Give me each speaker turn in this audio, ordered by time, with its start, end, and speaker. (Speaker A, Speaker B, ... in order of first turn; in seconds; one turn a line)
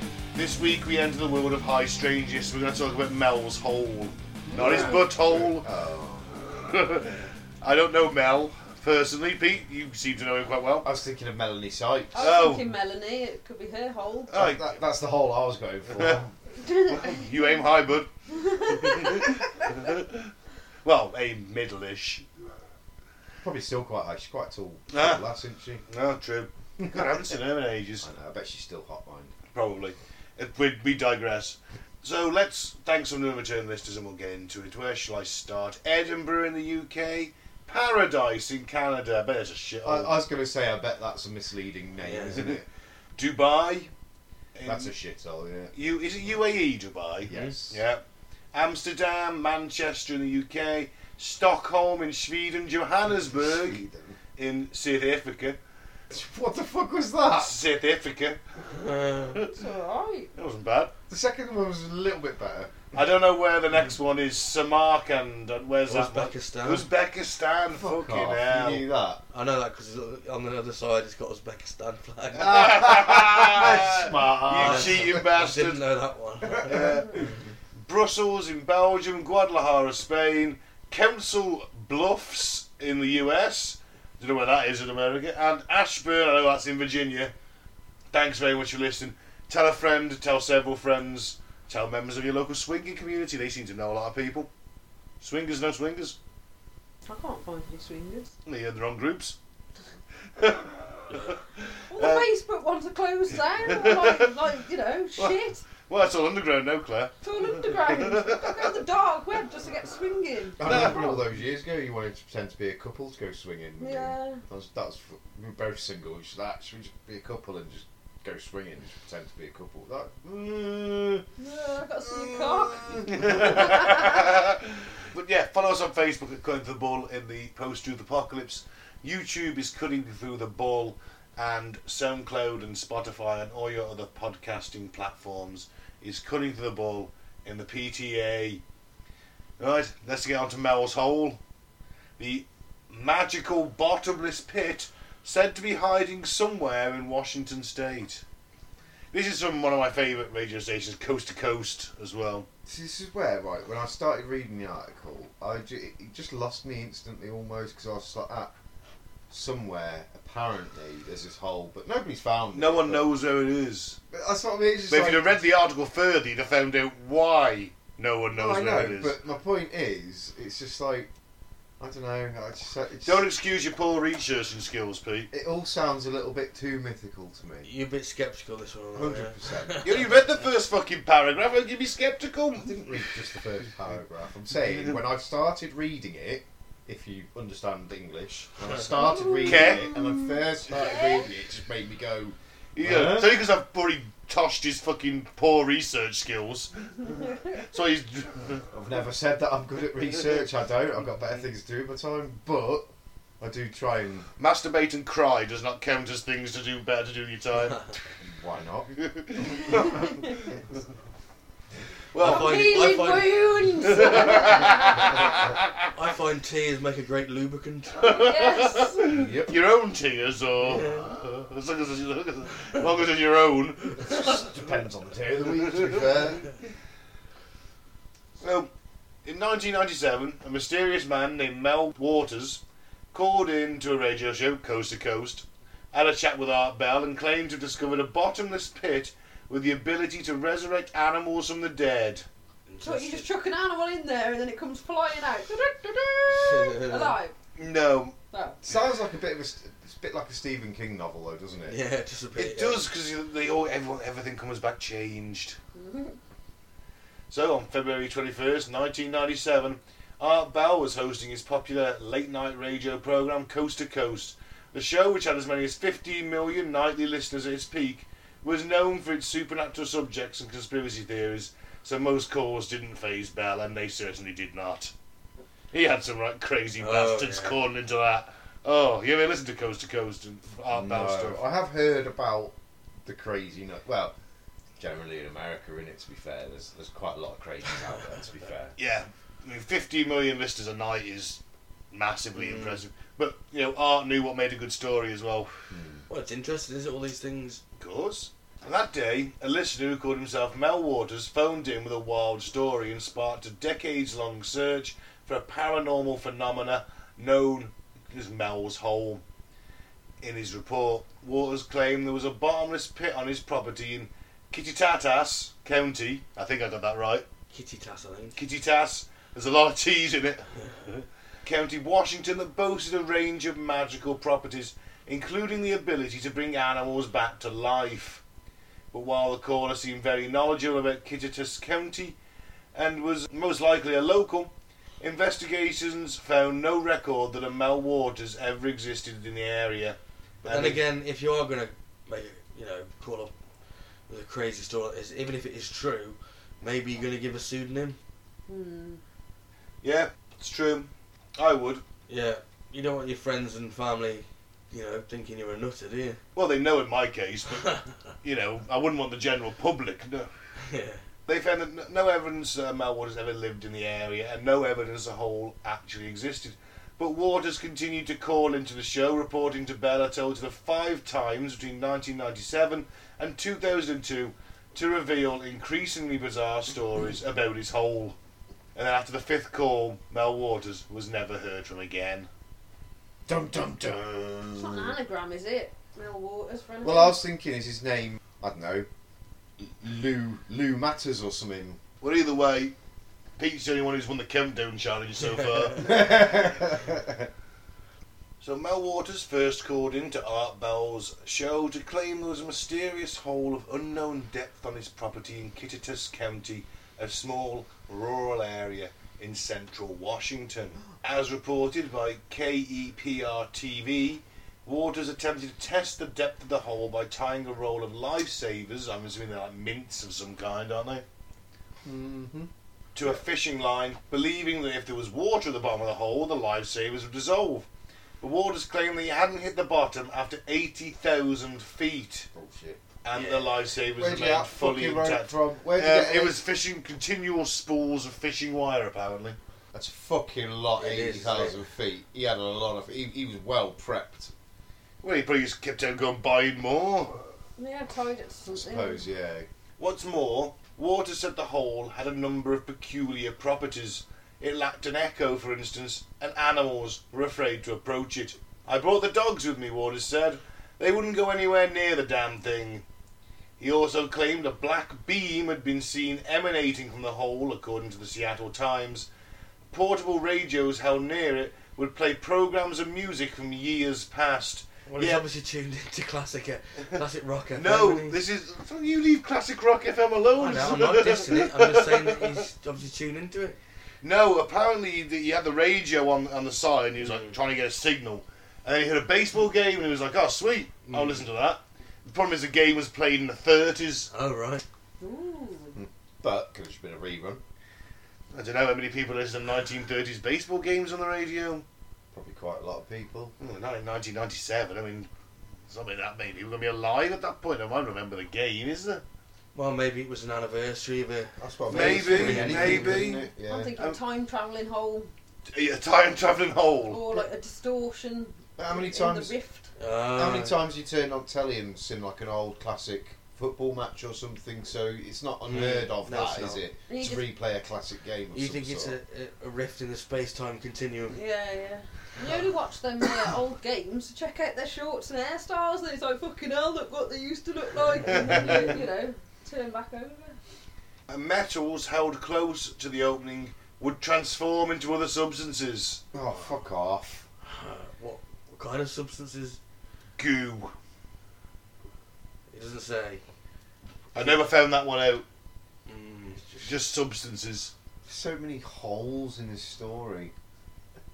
Speaker A: 0.3-5.7
Speaker B: 4.5-6.5
Speaker A: 6.5-10.9
Speaker B: 10.8-12.3
Speaker C: 12.1-14.3
Speaker A: 12.2-12.7
Speaker A: 14.3-14.7
Speaker B: 14.3-16.3
Speaker A: 15.9-16.3
Speaker C: 16.6-17.6
Speaker A: 16.8-20.3
Speaker C: 18.3-19.4
Speaker A: 20.8-22.2
Speaker B: 23.4-25.8
Speaker A: 24.9-25.2
Speaker A: 25.9-28.1
Speaker B: 26.8-27.2
Speaker B: 28.0-29.3
Speaker A: 29.5-40.2
Speaker B: 39.8-42.6
Speaker D: 42.0-42.5
Speaker A: 43.1-43.9
Speaker A: 44.5-44.9
Speaker B: 44.6-45.7
Speaker A: 45.7-53.8
Speaker B: 47.2-47.8
Speaker B: 53.2-54.2
Speaker A: 54.4-55.6
Speaker B: 56.1-57.6
Speaker A: 57.4-58.4
Speaker D: 58.7-59.4
Speaker C: 59.5-60.3
Speaker A: 60.4-60.9
Speaker B: 61.1-62.8
Speaker A: 62.9-68.8
Speaker D: 65.8-66.9
Speaker B: 67.7-69.2
Speaker D: 69.3-72.9
Speaker A: 72.3-75.8
Speaker B: 72.4-75.2
Speaker D: 74.6-76.9
Speaker B: 76.5-77.3
Speaker A: 76.6-77.3
Speaker A: 77.8-87.3
Speaker A: 88.1-94.5
Speaker A: 95.2-96.2
Speaker C: 97.1-98.3
Speaker A: 98.4-99.4
Speaker A: 100.4-102.2
Speaker C: 101.9-105.6
Speaker A: 103.6-104.3
Speaker A: 105.2-108.6
Speaker C: 107.2-111.0
Speaker B: 110.6-121.2
Speaker A: 110.6-111.2
Speaker C: 113.8-114.4
Speaker C: 121.4-124.2
Speaker A: 122.3-138.6
Speaker B: 123.2-123.5
Speaker A: 139.6-141.4
Speaker A: 142.2-148.2
Speaker A: 149.1-152.5
Speaker B: 152.7-158.5
Speaker B: 159.3-163.1
Speaker A: 162.5-164.0
Speaker B: 164.1-165.3
Speaker A: 164.9-169.1
Speaker B: 168.3-171.1
Speaker B: 171.8-173.3
Speaker A: 173.0-175.3
Speaker B: 175.3-177.7
Speaker D: 177.6-180.4
Speaker B: 178.9-179.8
Speaker A: 179.8-182.8
Speaker B: 182.6-193.4
Speaker C: 188.9-190.1
Speaker A: 189.4-190.4
Speaker C: 190.7-191.3
Speaker A: 192.7-198.6
Speaker B: 198.7-204.3
Speaker A: 204.4-207.8
Speaker B: 208.2-208.9
Speaker A: 209.0-210.2
Speaker C: 209.8-210.3
Speaker A: 212.1-212.9
Speaker D: 212.2-215.1
Speaker C: 212.2-215.1
Speaker A: 213.9-215.7
Speaker D: 215.9-218.1
Speaker A: 218.0-224.4
Speaker C: 218.0-219.0
Speaker B: 219.1-219.6
Speaker D: 220.7-221.0
Speaker B: 224.0-226.5
Speaker A: 225.7-226.0
Speaker A: 228.4-228.7
Speaker A: 229.2-242.2
Speaker D: 242.7-243.2
Speaker C: 242.8-247.3
Speaker D: 246.3-247.2
Speaker A: 247.6-248.2
Speaker C: 248.3-248.6
Speaker B: 248.6-251.8
Speaker D: 251.7-252.8
Speaker A: 252.3-255.6
Speaker C: 255.7-256.2
Speaker A: 257.3-274.9
Speaker A: 275.7-281.4
Speaker D: 276.8-277.6
Speaker B: 280.7-284.1
Speaker B: 284.8-288.8
Speaker A: 288.8-291.4
Speaker A: 291.9-295.5
Speaker D: 292.3-292.8
Speaker B: 295.7-296.0
Speaker D: 296.1-297.6
Speaker A: 297.8-309.2
Speaker A: 310.2-317.2
Speaker D: 317.5-318.4
Speaker A: 318.4-328.2
Speaker A: 328.9-332.2
Speaker A: 332.7-340.8
Speaker D: 340.4-343.3
Speaker D: 344.1-348.0
Speaker C: 348.5-349.0
Speaker A: 349.8-351.8
Speaker D: 352.1-356.2
Speaker A: 356.3-360.3
Speaker D: 360.6-361.0
Speaker A: 361.2-378.1
Speaker A: 378.7-382.3
Speaker B: 383.3-384.9
Speaker C: 384.6-387.2
Speaker B: 386.8-388.9
Speaker B: 389.6-391.8
Speaker A: 392.0-392.7
Speaker A: 393.4-396.0
Speaker B: 395.8-397.3
Speaker A: 398.4-421.0
Speaker B: 421.8-422.5
Speaker A: 422.9-427.7
Speaker A: 428.2-432.3
Speaker B: 432.3-432.8
Speaker A: 433.0-439.4
Speaker D: 433.1-433.5
Speaker B: 433.9-436.4
Speaker B: 439.7-444.3
Speaker D: 440.8-441.6
Speaker A: 445.0-447.2
Speaker C: 447.6-449.0
Speaker B: 448.5-449.5
Speaker A: 449.8-462.8
Speaker A: 463.6-469.1
Speaker A: 469.7-475.2
Speaker D: 474.9-478.2
Speaker A: 477.6-482.4
Speaker D: 480.4-483.6
Speaker A: 484.0-494.1
Speaker D: 487.0-487.4
Speaker D: 490.9-491.2
Speaker D: 494.1-494.6
Speaker C: 495.0-495.8
Speaker B: 495.8-497.4
Speaker A: 498.3-501.6
Speaker B: 502.1-503.3
Speaker A: 503.4-505.1
Speaker A: 505.7-509.0
Speaker D: 509.5-513.2
Speaker B: 511.4-513.8
Speaker A: 511.7-514.0
Speaker C: 513.4-515.1
Speaker A: 515.5-517.1
Speaker C: 516.9-519.7
Speaker B: 518.6-519.3
Speaker D: 519.8-520.6
Speaker B: 520.1-529.0
Speaker D: 525.4-526.6
Speaker C: 526.9-527.3
Speaker D: 528.3-531.2
Speaker C: 531.1-540.4
Speaker A: 538.1-538.7
Speaker A: 541.1-546.0
Speaker B: 546.1-547.2
Speaker D: 547.4-549.6
Speaker A: 550.2-550.7
Speaker D: 552.5-553.2
Speaker A: 554.1-555.2
Speaker D: 554.1-554.4
Speaker D: 555.9-556.7
Speaker A: 556.6-557.7
Speaker B: 558.0-560.3